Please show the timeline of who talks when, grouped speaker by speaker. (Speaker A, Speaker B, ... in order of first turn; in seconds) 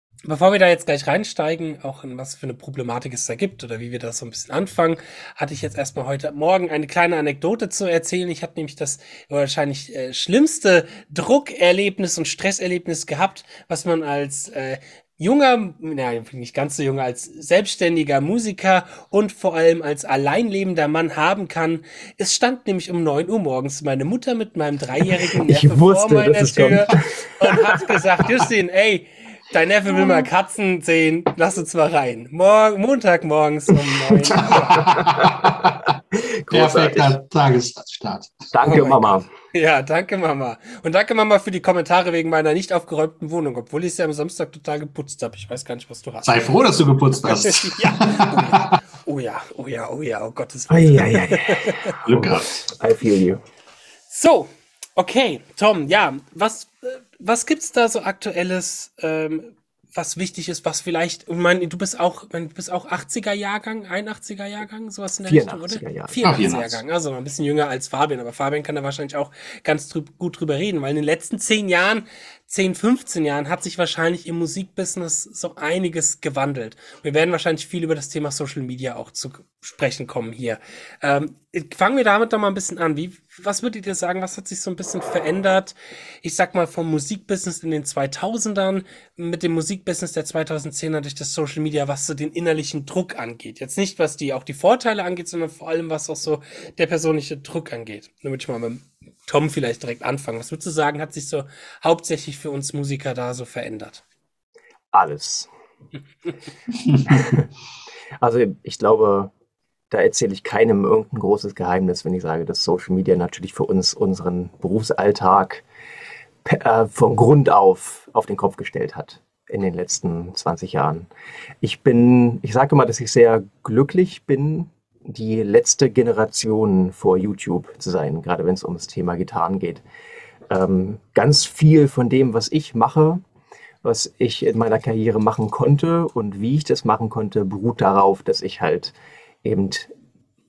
Speaker A: 0.2-35.1, 38.6-46.5, 47.2-52.0, 54.1-104.0
Speaker B: 25.1-28.0, 34.1-35.6, 36.1-37.1, 38.5-39.3, 50.7-53.4, 65.3-66.2, 104.9-105.5, 107.1-107.5, 108.2-109.3, 109.9-115.6, 116.5-121.1, 121.6-129.8, 130.5-133.2, 133.8-139.9
Speaker C: 34.3-36.0, 36.5-38.4, 46.2-48.8, 52.0-52.5, 66.2-66.8